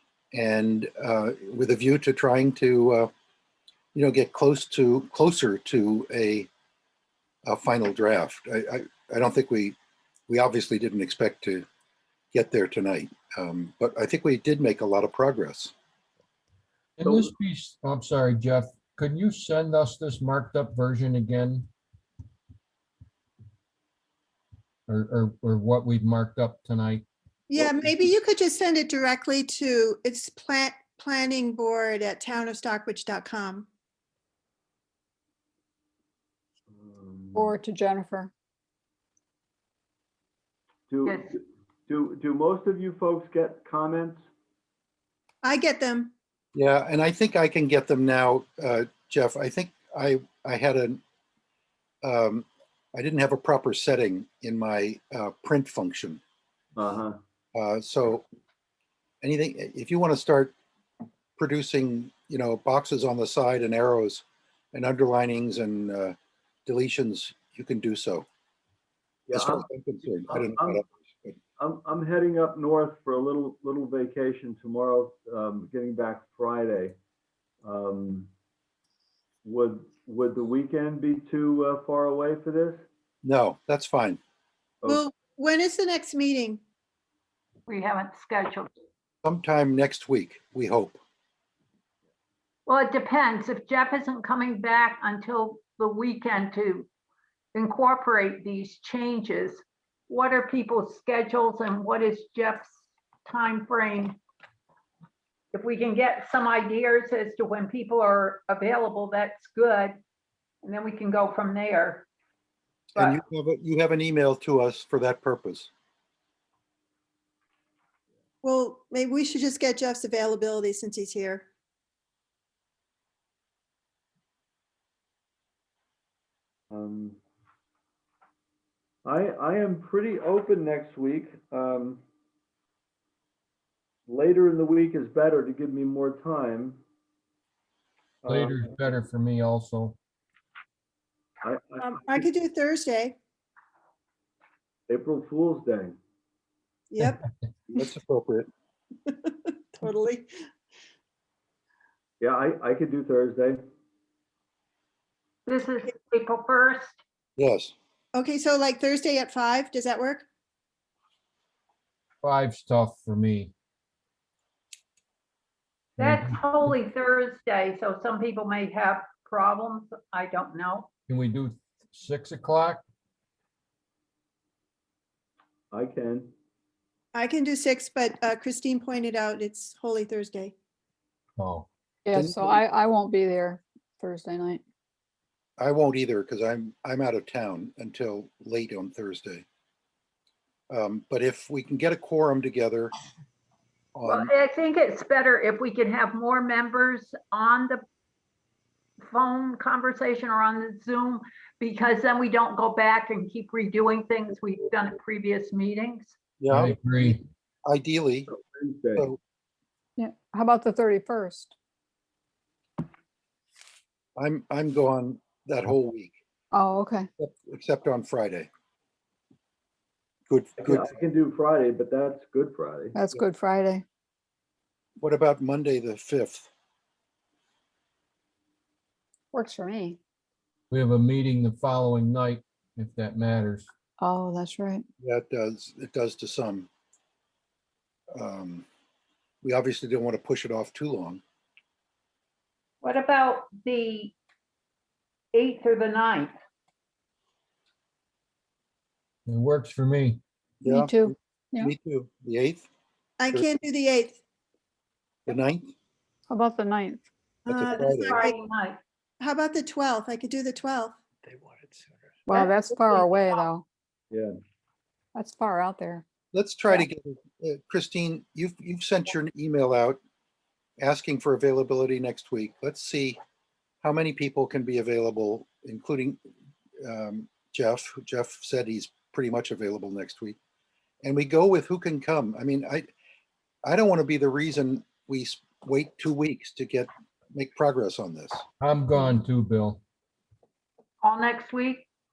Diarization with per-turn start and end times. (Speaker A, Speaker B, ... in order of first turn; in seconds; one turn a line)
Speaker A: 0.3-3.1
Speaker A: 3.9-6.5
Speaker A: 7.5-9.8
Speaker A: 10.3-11.7
Speaker A: 12.3-15.7
Speaker B: 17.0-21.7
Speaker C: 17.0-17.3
Speaker B: 24.9-27.1
Speaker D: 27.5-33.7
Speaker B: 27.6-27.9
Speaker C: 36.7-37.6
Speaker E: 37.4-38.3
Speaker C: 40.9-44.2
Speaker F: 41.1-41.3
Speaker D: 45.4-46.1
Speaker A: 46.5-51.0
Speaker A: 52.0-56.2
Speaker C: 56.8-57.2
Speaker A: 57.5-58.3
Speaker A: 59.2-60.5
Speaker A: 61.4-68.3
Speaker C: 69.3-69.7
Speaker A: 69.3-71.3
Speaker C: 70.2-70.8
Speaker C: 71.6-77.0
Speaker C: 77.6-78.3
Speaker C: 79.4-82.8
Speaker A: 83.2-84.2
Speaker D: 84.9-86.6
Speaker F: 87.7-88.7
Speaker A: 89.2-91.0
Speaker F: 92.7-96.9
Speaker F: 97.5-102.7
Speaker F: 103.3-104.2
Speaker F: 105.5-110.0
Speaker F: 110.6-112.1
Speaker F: 113.0-113.2
Speaker A: 113.0-115.7
Speaker D: 118.4-121.5
Speaker C: 126.7-127.2
Speaker C: 129.1-132.0
Speaker C: 134.1-136.8
Speaker C: 138.2-138.8
Speaker B: 138.3-140.0
Speaker C: 141.4-142.3
Speaker D: 141.8-143.2
Speaker C: 144.9-146.0
Speaker D: 146.9-147.2
Speaker A: 147.7-148.5
Speaker D: 149.8-150.3
Speaker C: 152.2-153.6
Speaker F: 155.5-157.0
Speaker A: 157.4-157.7
Speaker D: 158.1-160.2
Speaker B: 162.2-163.5
Speaker F: 166.0-170.9
Speaker B: 166.0-166.4
Speaker B: 171.1-172.8
Speaker C: 175.7-176.3
Speaker D: 177.1-180.5
Speaker B: 181.4-181.7
Speaker E: 182.1-184.6
Speaker A: 182.1-182.6
Speaker A: 185.6-189.4
Speaker A: 190.7-192.9
Speaker A: 193.9-194.3
Speaker F: 194.1-197.8
Speaker F: 199.0-206.2
Speaker A: 206.4-208.3
Speaker B: 206.5-207.2
Speaker C: 208.3-209.1
Speaker E: 210.0-211.5
Speaker A: 214.2-216.2
Speaker E: 216.5-217.1
Speaker A: 217.2-218.5
Speaker A: 220.3-220.9
Speaker C: 220.6-223.0
Speaker E: 222.9-223.8
Speaker A: 225.0-226.5
Speaker E: 229.3-230.0
Speaker B: 230.7-233.7
Speaker E: 234.0-234.8
Speaker A: 235.0-236.7
Speaker A: 238.1-238.7
Speaker A: 239.4-241.2
Speaker F: 242.8-244.2
Speaker F: 245.3-246.3
Speaker B: 249.3-250.2
Speaker A: 250.6-252.7
Speaker E: 250.6-251.7
Speaker D: 253.2-254.2
Speaker A: 255.3-255.7
Speaker E: 256.3-257.0
Speaker A: 257.5-258.2
Speaker D: 257.5-258.4
Speaker F: 257.7-258.8
Speaker D: 259.2-261.0
Speaker E: 262.3-263.6
Speaker E: 265.1-266.1
Speaker A: 266.3-270.0
Speaker A: 270.8-273.2
Speaker A: 273.8-276.2
Speaker A: 276.8-280.4
Speaker A: 281.0-282.9
Speaker A: 283.6-288.4
Speaker B: 288.6-289.8
Speaker F: 291.0-291.9